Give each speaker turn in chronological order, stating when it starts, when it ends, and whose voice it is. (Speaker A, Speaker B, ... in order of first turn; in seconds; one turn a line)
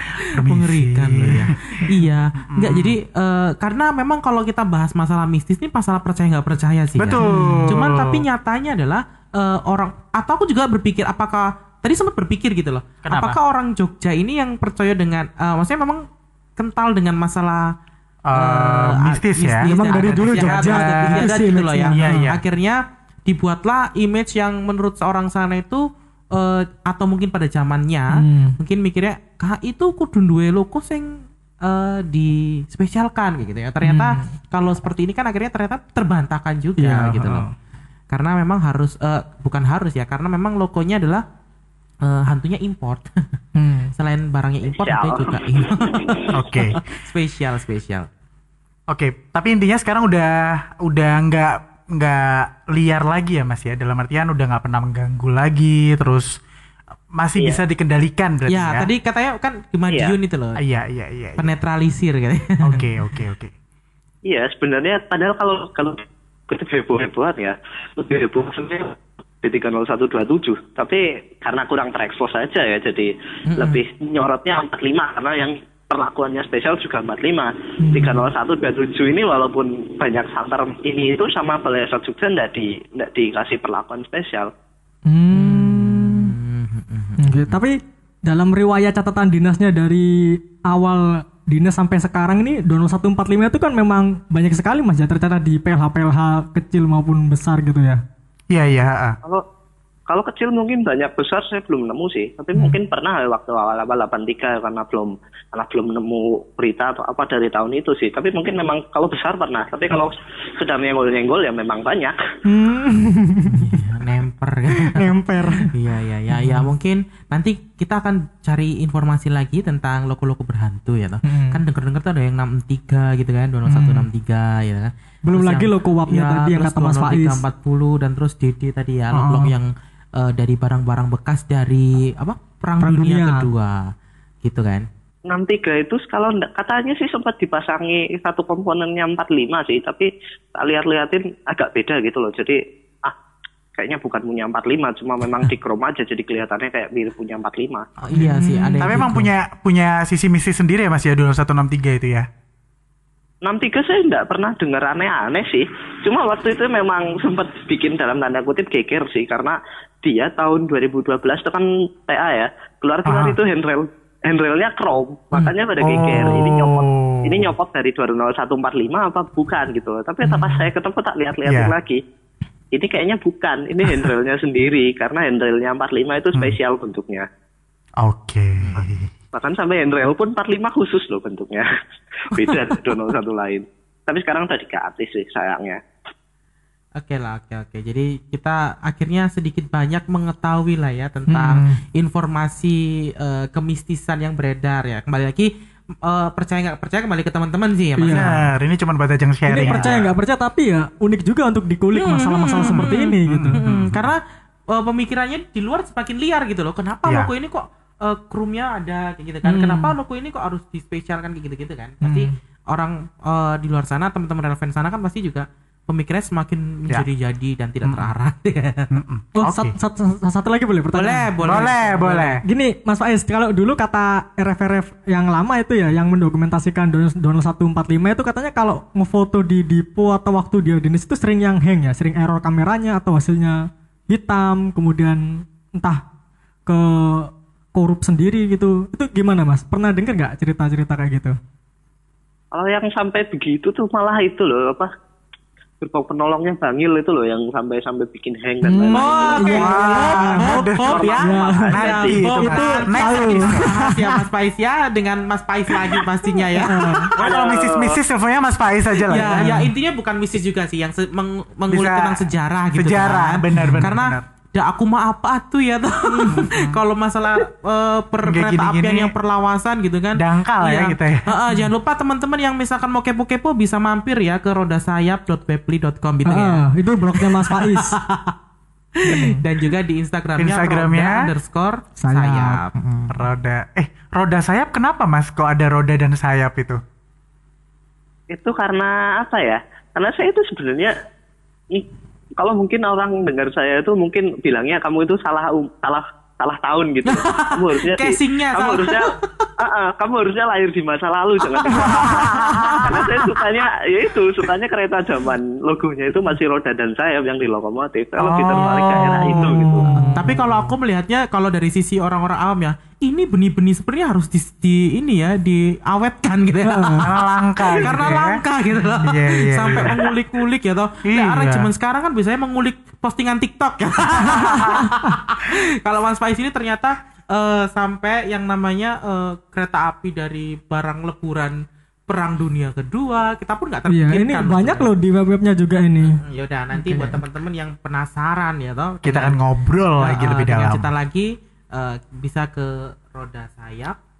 Speaker A: 0.3-1.5
Speaker B: 0.3-16.0
Speaker A: 2.5-3.0
Speaker A: 7.0-8.2
Speaker C: 7.2-7.7
Speaker A: 13.0-13.4
Speaker B: 16.6-17.7
Speaker A: 18.2-21.3
Speaker B: 18.3-37.5
Speaker C: 19.6-22.3
Speaker A: 21.9-22.4
Speaker C: 28.1-28.6
Speaker C: 33.8-34.3
Speaker C: 36.8-37.5
Speaker B: 38.1-41.2
Speaker B: 42.0-43.3
Speaker C: 43.5-43.9
Speaker B: 43.9-48.1
Speaker D: 44.7-46.3
Speaker A: 46.3-46.8
Speaker A: 48.9-56.3
Speaker A: 57.1-58.9
Speaker B: 58.5-60.6
Speaker A: 60.6-61.5
Speaker B: 61.4-62.8
Speaker A: 62.6-63.5
Speaker D: 64.3-84.5
Speaker B: 73.5-73.8
Speaker C: 77.8-78.2
Speaker C: 85.1-86.3
Speaker B: 85.3-87.6
Speaker C: 87.2-98.0
Speaker A: 98.5-99.2
Speaker D: 100.1-112.2
Speaker C: 112.4-113.9
Speaker B: 113.5-133.8
Speaker C: 114.7-115.7
Speaker C: 116.3-116.7
Speaker C: 121.2-121.6
Speaker C: 123.7-124.1
Speaker C: 125.3-127.4
Speaker C: 129.1-129.5
Speaker C: 132.8-133.5
Speaker B: 134.4-134.8
Speaker D: 135.3-143.1
Speaker D: 143.7-147.9
Speaker B: 148.0-149.3
Speaker C: 148.1-149.2
Speaker A: 148.8-152.3
Speaker D: 153.4-172.0
Speaker A: 163.1-163.4
Speaker A: 165.8-167.5
Speaker A: 171.4-171.7
Speaker D: 172.7-177.3
Speaker A: 178.0-179.1
Speaker B: 178.6-178.9
Speaker D: 179.3-181.7
Speaker D: 182.2-185.8
Speaker B: 187.0-195.5
Speaker C: 191.3-191.8
Speaker B: 196.0-198.4
Speaker C: 198.0-198.3
Speaker A: 198.1-200.1
Speaker C: 199.5-203.6
Speaker B: 199.6-199.9
Speaker B: 201.9-204.2
Speaker A: 202.6-204.1
Speaker B: 204.7-218.9
Speaker A: 207.0-207.3
Speaker C: 209.4-209.9
Speaker C: 212.0-212.3
Speaker A: 217.8-218.1
Speaker A: 218.9-219.7
Speaker C: 219.4-221.7
Speaker B: 220.9-222.4
Speaker A: 221.4-222.4
Speaker C: 222.4-236.0
Speaker C: 236.7-241.3
Speaker D: 242.5-244.9
Speaker D: 245.8-250.1
Speaker C: 248.6-250.6
Speaker B: 248.9-257.2
Speaker A: 249.4-251.1
Speaker D: 250.8-252.2
Speaker C: 251.2-251.8
Speaker A: 251.7-253.7
Speaker C: 252.3-254.2
Speaker C: 256.6-257.1
Speaker A: 257.2-259.5
Speaker D: 257.2-258.0
Speaker B: 259.1-276.6
Speaker C: 259.3-259.7
Speaker A: 261.7-264.2
Speaker C: 263.6-263.8
Speaker C: 266.1-266.5
Speaker A: 266.3-266.8
Speaker A: 268.2-269.1
Speaker A: 270.1-271.3
Speaker C: 276.2-277.9
Speaker B: 277.1-278.3
Speaker B: 279.0-282.7
Speaker C: 279.1-279.4
Speaker A: 280.4-281.3
Speaker C: 282.0-283.2
Speaker A: 283.1-286.8
Speaker D: 288.3-290.9
Speaker D: 291.7-309.9
Speaker B: 297.0-299.5
Speaker B: 301.6-303.1
Speaker C: 301.7-302.8
Speaker A: 302.6-302.8
Speaker A: 308.2-310.1
Speaker C: 309.9-310.5
Speaker B: 310.0-317.2
Speaker C: 316.6-317.1
Speaker A: 317.0-318.4
Speaker B: 317.8-334.9
Speaker A: 319.0-320.0
Speaker A: 321.0-321.7
Speaker C: 324.2-325.1
Speaker C: 333.9-336.2
Speaker B: 336.0-339.4
Speaker C: 336.7-337.2
Speaker A: 339.0-340.9
Speaker B: 340.0-343.9